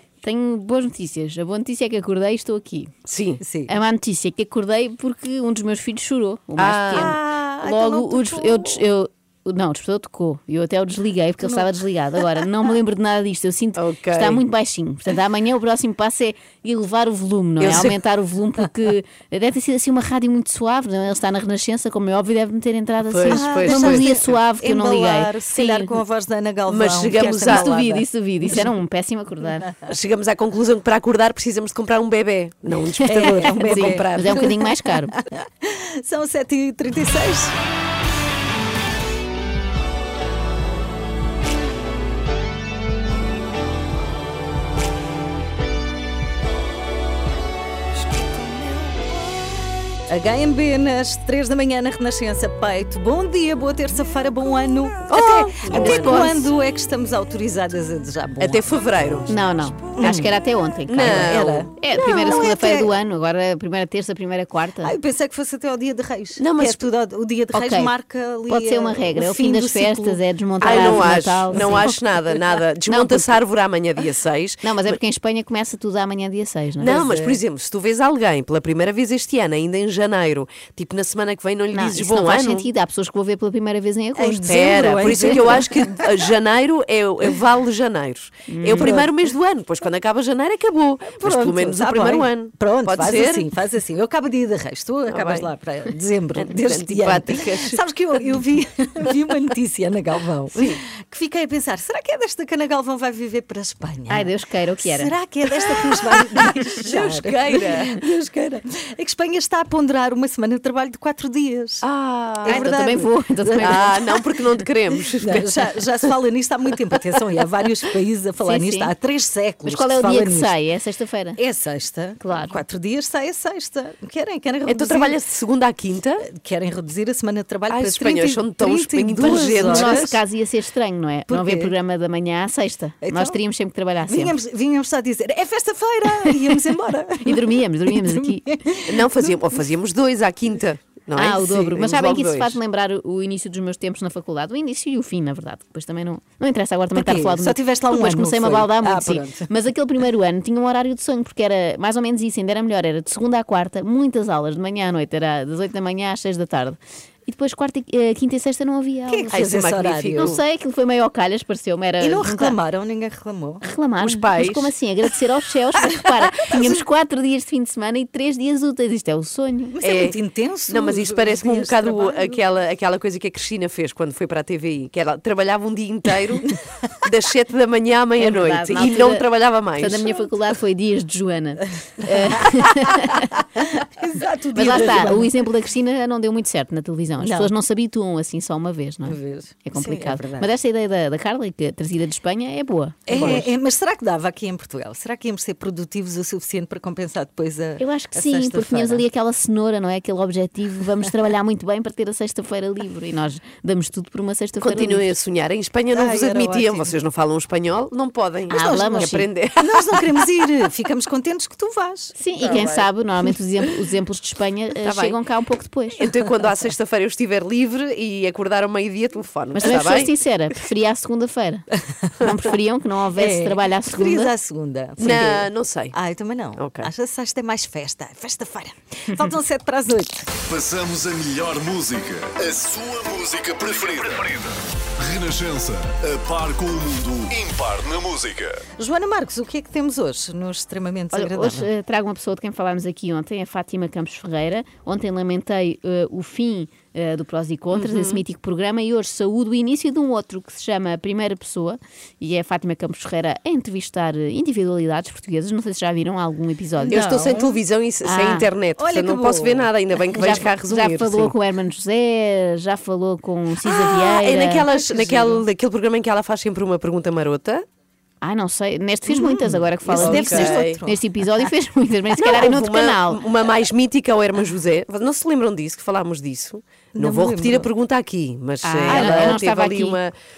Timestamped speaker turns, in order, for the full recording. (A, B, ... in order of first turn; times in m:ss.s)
0:00.2-0:02.9 A
0:03.1-0:03.4 B
0:03.4-0:03.8 C
0:03.7-0:26.0 A
0:06.6-0:07.2 B
0:06.9-0:08.8 C
0:13.8-0:14.4 B
0:17.6-0:18.0 B
0:23.0-0:24.2 B
0:23.3-0:28.7 C
0:26.7-0:27.7 B
0:27.2-0:29.7 A
0:29.9-0:34.5 B
0:33.0-0:37.6 C
0:33.2-0:35.1 A
0:50.1-0:58.6 C
0:55.1-0:56.4 B
0:55.7-0:56.4 A
0:58.4-0:59.3 B
0:59.3-1:04.9 A
0:59.9-1:00.3 C
1:00.9-1:01.7 B
1:00.9-1:02.9 C
1:04.8-1:12.0 C
1:06.4-1:06.8 B
1:07.5-1:07.9 A
1:08.5-1:11.9 A
1:10.6-1:15.0 B
1:12.9-1:13.3 A
1:14.6-1:17.0 A
1:16.8-1:17.4 C
1:16.8-1:22.7 B
1:21.7-1:25.6 A
1:24.2-1:26.0 C
1:24.5-1:33.4 B
1:28.5-1:29.0 A
1:31.1-1:51.8 C
1:35.1-1:35.5 B
1:36.4-1:37.8 B
1:40.6-1:40.8 B
1:44.1-1:45.1 A
1:46.8-1:48.0 B
1:51.8-1:52.7 B
1:52.4-1:54.2 C
1:52.5-1:54.0 A
1:53.6-1:55.8 B
1:55.2-2:00.5 C
1:58.4-1:58.9 A
1:59.6-2:01.4 A
2:01.4-2:05.2 C
2:02.2-2:02.6 A
2:04.7-2:06.2 B
2:06.2-2:10.2 C
2:07.7-2:10.2 B
2:09.6-2:14.4 A
2:11.3-2:11.7 C
2:13.0-2:13.4 C
2:14.1-2:19.1 C
2:17.2-2:18.4 A
2:18.9-2:22.6 B
2:21.2-2:39.4 A
2:26.9-2:29.5 C
2:39.1-2:40.3 C
2:39.3-2:40.4 B
2:40.2-2:42.6 A
2:42.0-2:43.6 C
2:43.6-2:49.8 A
2:44.0-2:44.7 B
2:49.8-2:52.4 C
2:49.8-2:50.2 B
2:50.7-2:56.5 B
2:57.0-3:00.2 B
2:58.2-2:59.2 A
2:59.8-3:03.4 A
3:02.0-3:05.3 C
3:04.6-3:13.5 A
3:07.2-3:07.5 C
3:09.0-3:10.5 C
3:13.1-3:19.0 C
3:13.1-3:13.4 B
3:17.8-3:25.1 A
3:24.6-3:30.0 B
3:25.9-3:26.9 C
3:28.5-3:29.2 A
3:28.5-3:32.6 C
3:32.2-3:36.0 A
3:32.4-3:32.9 B
3:34.8-3:35.2 B
3:36.0-3:40.1 B
3:39.6-3:41.7 A
3:42.2-3:44.3 A
3:43.2-3:50.3 C
3:45.0-3:45.9 B
3:46.6-3:46.9 B
3:50.5-3:58.6 D
3:58.8-4:01.7 C
4:01.1-4:17.0 A
4:07.7-4:08.2 B
4:16.8-4:17.6 C
4:16.9-4:21.3 B
4:18.0-4:18.5 A
4:18.8-4:20.4 C
4:20.2-4:24.6 A
4:23.6-4:27.6 B
4:24.7-4:25.4 C
4:28.2-4:33.2 A
4:29.1-4:31.4 C
4:30.0-4:30.8 B
4:32.2-4:40.2 B
4:36.9-4:37.7 C
4:38.6-4:40.0 A
4:38.8-4:39.4 C